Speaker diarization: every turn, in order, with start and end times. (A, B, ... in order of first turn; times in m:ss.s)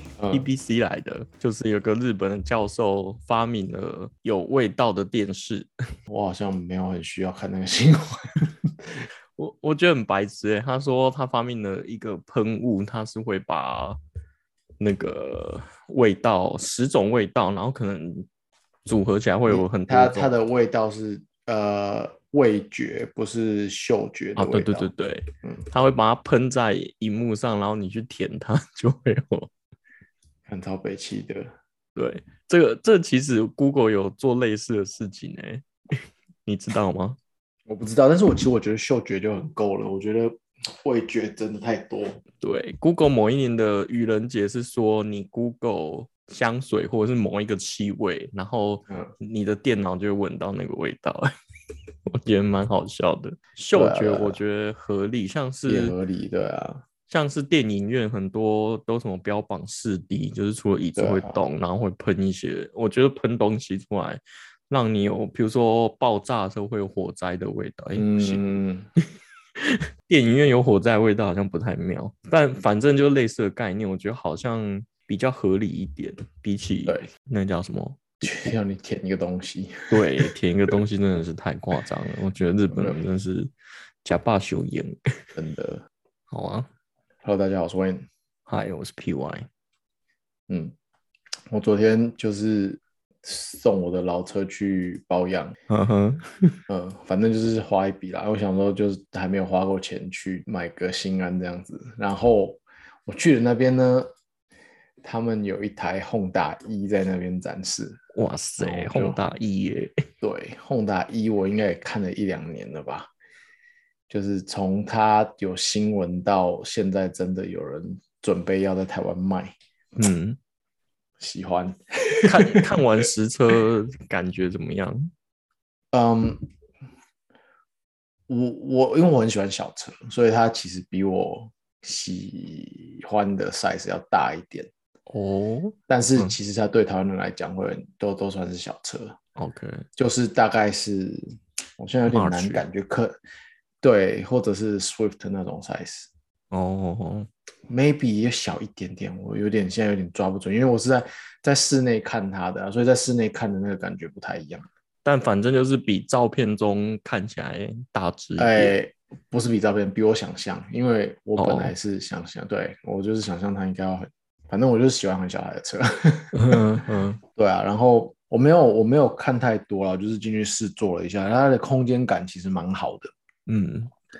0:00.2-0:00.5 A
0:00.3-0:05.7 B
0:06.1-0:09.0 A
0:09.4-0:14.0 B
0:14.8-0:18.3 B
0:18.8-0:20.3 B
0:19.5-0:24.9 A
0:24.4-0:29.5 B
0:30.5-0:31.5 A
0:32.0-0:37.2 B
0:37.7-0:42.2 A
0:42.4-0:51.3 B
0:52.0-0:56.0 B
0:53.7-0:54.4 A
0:55.7-0:56.8 A
0:57.1-1:08.4 B
1:01.0-1:01.4 A
1:08.0-1:08.9 A
1:09.6-1:18.2 B
1:18.2-1:20.3 A
1:19.9-1:23.5 B
1:24.0-1:25.0 B
1:25.3-1:25.8 A
1:26.3-1:26.7 B
1:27.2-1:28.1 A
1:28.5-1:29.5 B
1:30.5-1:30.7 A
1:31.5-1:35.6 A
1:35.7-1:36.6 B
1:36.7-1:44.1 A
1:45.0-1:48.0 A
1:48.1-1:50.0 B
1:48.6-1:49.2 A
1:50.2-1:53.1 A
1:54.1-1:59.5 A
2:00.0-2:00.4 B
2:01.2-2:03.0 A
2:02.2-2:05.1 B
2:05.9-2:06.4 A
2:08.3-2:14.7 A
2:15.1-2:16.3 B
2:15.9-2:19.2 A
2:19.4-2:19.8 B
2:20.0-2:23.2 A
2:22.1-2:22.6 B
2:23.8-2:26.1 A
2:26.5-2:27.3 B
2:27.7-2:34.7 A
2:35.0-2:38.7 B
2:38.4-2:46.6 A
2:41.4-2:41.7 B
2:46.3-2:47.2 B
2:47.3-2:53.1 A
2:53.5-2:53.9 B